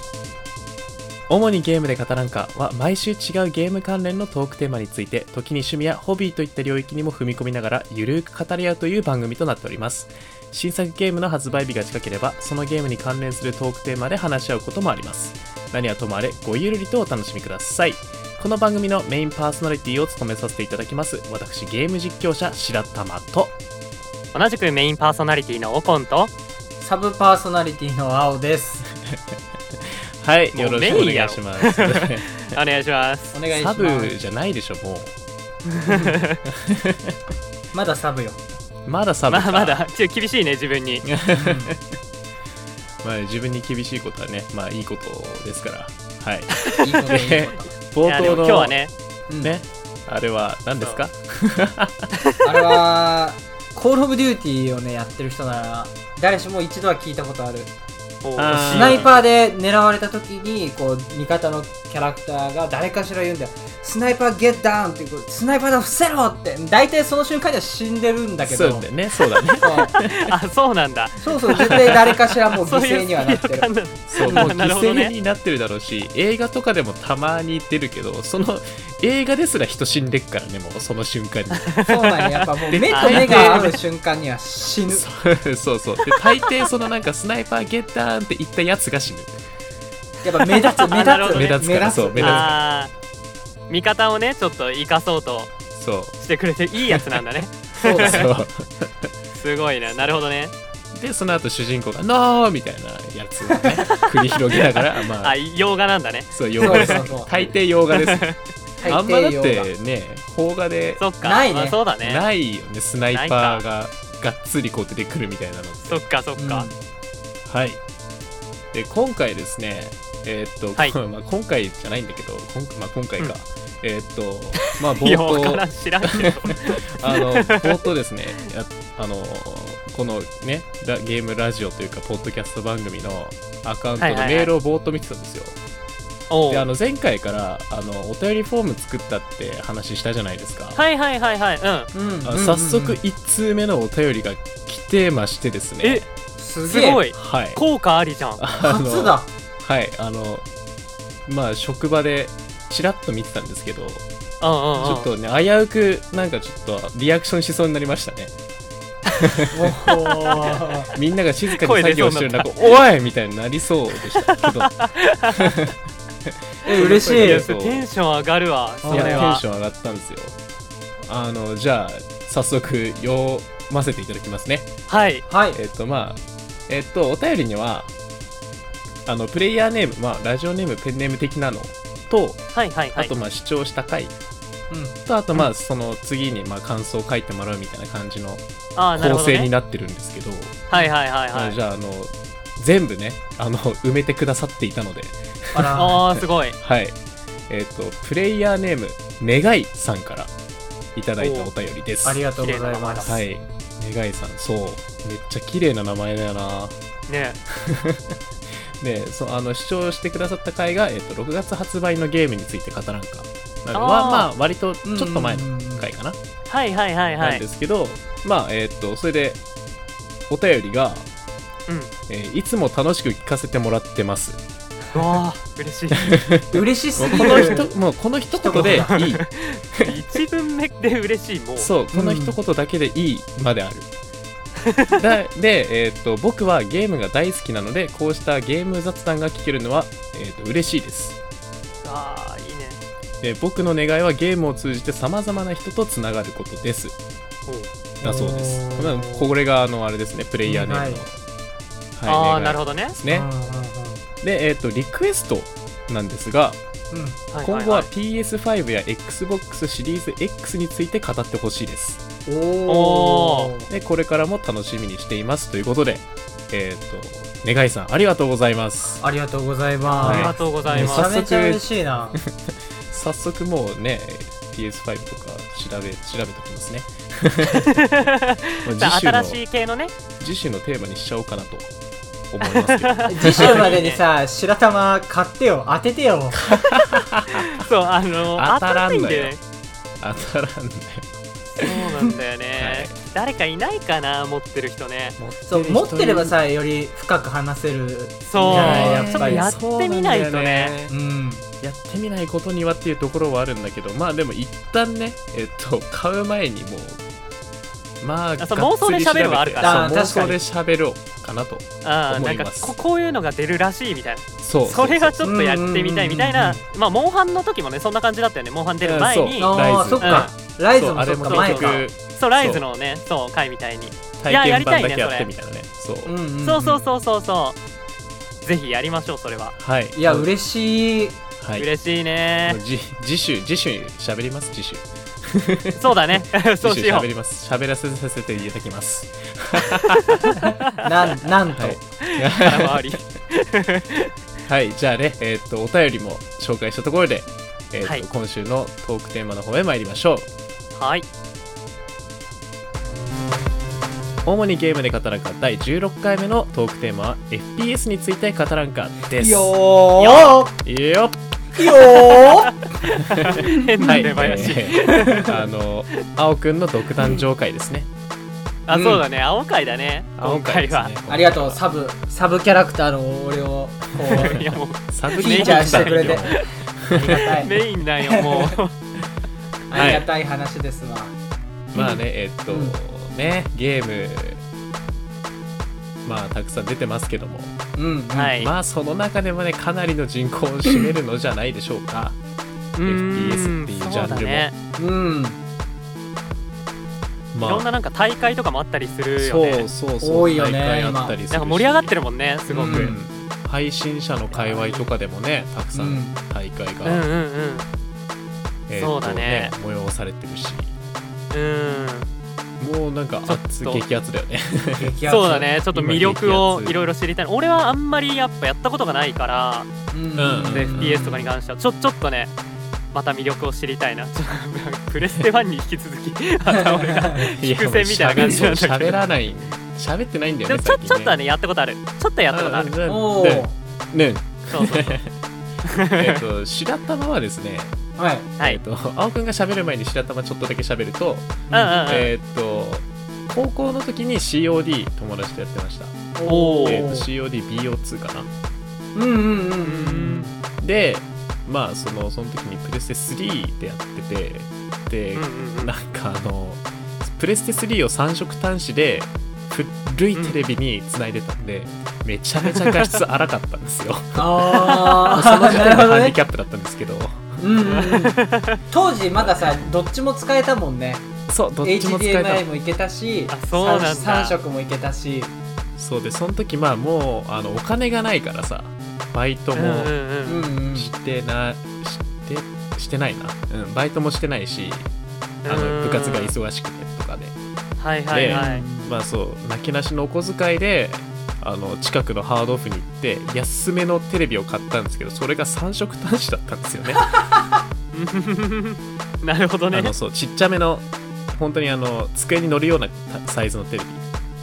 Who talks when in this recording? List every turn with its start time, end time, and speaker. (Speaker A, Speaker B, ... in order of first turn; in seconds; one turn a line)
Speaker A: 1.3-23.6
Speaker B: 24.3-26.3
Speaker C: 26.8-28.9
Speaker A: 28.9-32.6
Speaker B: 30.5-33.4
Speaker C: 33.3-34.1
Speaker A: 33.5-35.1
Speaker B: 35.7-36.4
Speaker C: 35.9-36.1
Speaker A: 36.5-37.1
Speaker C: 37.7-38.4
Speaker A: 38.9-39.8
Speaker B: 39.3-41.0
Speaker A: 41.0-42.0
Speaker C: 41.3-41.7
Speaker A: 43.0-48.8
Speaker C: 46.8-47.7
Speaker B: 48.0-48.9
Speaker A: 49.4-52.1
Speaker C: 52.4-57.7
Speaker B: 58.2-59.2
Speaker A: 58.4-59.1
Speaker C: 58.7-68.9
Speaker A: 68.4-70.3
Speaker B: 69.3-75.1
Speaker C: 69.6-69.9
Speaker C: 71.2-73.7
Speaker A: 74.1-81.7
Speaker C: 74.2-74.5
Speaker B: 81.6-83.8
Speaker C: 81.8-85.0
Speaker A: 82.7-83.7
Speaker A: 84.9-89.4
Speaker B: 86.1-86.6
Speaker C: 90.2-92.5
Speaker B: 90.6-91.5
Speaker A: 91.3-92.6
Speaker B: 92.2-92.9
Speaker B: 93.7-95.5
Speaker A: 95.7-96.1
Speaker B: 96.2-98.2
Speaker A: 96.8-97.2
Speaker C: 97.7-98.3
Speaker A: 98.0-99.1
Speaker B: 99.3-100.5
Speaker A: 100.9-105.4
Speaker B: 103.9-107.4
Speaker A: 106.3-108.3
Speaker C: 106.6-107.3
Speaker B: 107.9-108.4
Speaker C: 108.8-109.7
Speaker A: 108.9-111.0
Speaker B: 111.0-112.2
Speaker C: 111.2-111.8
Speaker A: 112.0-116.0
Speaker B: 113.1-113.6
Speaker B: 115.8-116.7
Speaker C: 116.3-116.8
Speaker A: 117.5-117.8
Speaker A: 118.7-135.6
Speaker B: 124.6-127.8
Speaker B: 134.0-134.5
Speaker B: 136.3-136.7
Speaker A: 136.5-140.8
Speaker B: 140.8-141.9
Speaker C: 141.9-143.0
Speaker A: 142.2-146.0
Speaker C: 146.4-147.0
Speaker B: 146.7-148.4
Speaker A: 147.1-147.6
Speaker A: 148.4-150.4
Speaker C: 148.6-149.3
Speaker A: 151.2-154.0
Speaker B: 154.4-155.1
Speaker A: 154.8-158.3
Speaker A: 159.2-159.5
Speaker C: 159.5-160.9
Speaker B: 160.2-160.6
Speaker A: 160.9-165.7
Speaker B: 161.5-162.8
Speaker B: 164.0-165.5
Speaker A: 166.3-167.9
Speaker C: 166.6-167.4
Speaker B: 166.8-169.4
Speaker C: 168.8-169.3
Speaker A: 168.9-170.4
Speaker A: 171.0-174.7
Speaker B: 174.9-175.2
Speaker C: 175.3-175.6
Speaker A: 175.5-177.9
Speaker A: 179.1-184.1
Speaker B: 182.5-183.1
Speaker C: 184.7-185.0
Speaker A: 185.1-190.6
Speaker B: 188.8-189.5
Speaker B: 190.7-191.6
Speaker A: 191.3-196.9
Speaker C: 195.5-196.0
Speaker B: 195.8-196.6
Speaker A: 197.5-200.3
Speaker A: 200.9-202.2
Speaker B: 201.2-201.5
Speaker C: 202.0-203.2
Speaker B: 202.4-203.2
Speaker A: 203.0-206.8
Speaker B: 207.1-207.4
Speaker A: 207.5-208.2
Speaker A: 208.8-216.2
Speaker B: 213.7-214.3
Speaker C: 214.8-215.9
Speaker B: 216.5-217.4
Speaker A: 217.2-219.4
Speaker A: 220.3-221.1
Speaker B: 221.7-221.9
Speaker A: 222.1-224.4
Speaker B: 224.9-226.1
Speaker A: 226.0-229.2
Speaker C: 226.5-227.7
Speaker B: 227.1-227.6
Speaker C: 228.3-229.0
Speaker B: 228.6-231.7
Speaker A: 231.6-233.9
Speaker C: 231.9-232.4
Speaker B: 234.7-235.0
Speaker A: 234.9-241.2
Speaker B: 241.8-242.8
Speaker A: 243.2-246.9
Speaker C: 248.0-249.3
Speaker A: 248.0-251.1
Speaker C: 250.4-251.0
Speaker A: 251.9-253.3
Speaker B: 252.1-253.0
Speaker C: 253.0-254.0
Speaker A: 254.2-256.6
Speaker C: 256.9-257.2
Speaker B: 257.3-257.9
Speaker A: 257.4-262.0
Speaker C: 262.2-263.7
Speaker B: 262.7-263.5
Speaker A: 263.7-269.0
Speaker C: 269.0-272.2
Speaker B: 269.8-271.1
Speaker A: 270.0-271.6
Speaker A: 272.9-277.7
Speaker B: 277.5-279.9
Speaker A: 278.6-279.4
Speaker A: 280.2-281.7
Speaker A: 282.3-283.8
Speaker B: 282.4-284.0
Speaker C: 283.1-286.4
Speaker A: 286.4-287.6
Speaker B: 287.5-289.4
Speaker A: 288.3-289.4
Speaker A: 290.0-291.1
Speaker B: 291.5-295.2
Speaker C: 291.6-292.1
Speaker A: 292.6-292.9
Speaker A: 295.2-296.3
Speaker C: 295.4-299.5
Speaker B: 298.3-300.7
Speaker A: 298.4-300.9
Speaker C: 300.9-301.4
Speaker A: 301.6-307.0
Speaker A: 308.0-312.8
Speaker B: 308.4-310.1
Speaker C: 309.6-310.4
Speaker B: 311.8-320.3
Speaker A: 314.4-315.3
Speaker C: 315.2-316.6
Speaker A: 318.8-322.6
Speaker C: 319.4-321.8
Speaker B: 321.2-325.3
Speaker A: 324.2-326.1
Speaker C: 326.0-326.8
Speaker B: 326.4-327.6
Speaker B: 328.4-329.6
Speaker A: 329.6-330.3
Speaker C: 329.9-331.2
Speaker A: 331.4-331.7
Speaker B: 331.6-332.6
Speaker A: 332.4-340.2
Speaker B: 335.8-337.1
Speaker C: 340.4-341.8
Speaker A: 341.5-342.9
Speaker B: 342.0-344.1
Speaker A: 344.4-350.3
Speaker B: 350.7-351.1
Speaker A: 354.2-359.5
Speaker C: 359.1-360.5
Speaker B: 360.0-360.4
Speaker A: 360.5-361.2
Speaker C: 361.5-362.5
Speaker B: 362.9-365.3
Speaker A: 363.2-367.9
Speaker C: 363.3-365.3
Speaker B: 368.7-370.9
Speaker C: 368.7-369.0
Speaker A: 370.2-371.6
Speaker C: 371.1-374.5
Speaker B: 374.0-376.4
Speaker A: 374.1-377.3
Speaker C: 375.1-376.4
Speaker C: 376.9-377.5
Speaker B: 377.2-378.7
Speaker C: 378.0-378.6
Speaker C: 379.7-381.1
Speaker A: 379.7-380.1
Speaker A: 381.7-384.4
Speaker C: 382.5-382.7
Speaker A: 386.0-387.6
Speaker C: 387.8-388.4
Speaker B: 388.1-388.5
Speaker A: 388.4-392.2
Speaker B: 392.8-394.5
Speaker A: 392.8-394.5
Speaker C: 394.8-395.4
Speaker A: 397.3-397.7
Speaker B: 397.4-399.7
Speaker A: 399.2-401.9
Speaker C: 400.0-401.1
Speaker B: 401.3-402.9
Speaker C: 402.5-402.9
Speaker A: 402.6-407.1
Speaker B: 404.3-404.9
Speaker C: 405.7-406.2
Speaker B: 406.8-407.7
Speaker A: 408.7-410.7
Speaker B: 408.8-409.5
Speaker B: 411.3-412.1
Speaker A: 412.6-414.9
Speaker B: 413.2-413.8
Speaker C: 414.8-415.5
Speaker B: 415.1-419.7
Speaker A: 415.7-416.8
Speaker C: 419.9-421.2
Speaker A: 420.2-421.3
Speaker B: 420.5-422.3
Speaker B: 422.9-429.0
Speaker A: 425.0-425.3
Speaker C: 426.5-427.2
Speaker A: 427.2-431.2
Speaker B: 430.5-432.7
Speaker A: 432.3-435.1
Speaker C: 432.8-433.5
Speaker B: 434.5-435.0
Speaker B: 435.7-436.2
Speaker A: 436.0-437.7
Speaker C: 438.0-438.3
Speaker A: 438.4-446.1
Speaker C: 441.5-441.8
Speaker B: 441.5-442.1
Speaker C: 446.1-447.1
Speaker B: 446.3-446.9
Speaker A: 446.6-448.3
Speaker C: 448.9-450.3
Speaker B: 449.6-450.3
Speaker A: 450.6-464.2
Speaker B: 455.1-455.7
Speaker B: 462.5-462.9
Speaker C: 464.1-466.1
Speaker B: 464.6-465.1
Speaker A: 465.1-467.4
Speaker C: 467.4-468.2
Speaker B: 467.6-468.6
Speaker C: 468.7-471.1
Speaker A: 471.3-472.4
Speaker C: 471.6-475.3
Speaker B: 473.3-474.4
Speaker A: 475.8-479.9
Speaker B: 479.6-480.4
Speaker C: 480.2-480.9
Speaker A: 480.7-484.9
Speaker B: 485.4-486.3
Speaker A: 485.5-487.4
Speaker B: 487.8-488.6
Speaker A: 488.1-497.1
Speaker C: 488.3-488.9
Speaker B: 497.9-499.9
Speaker A: 499.7-504.0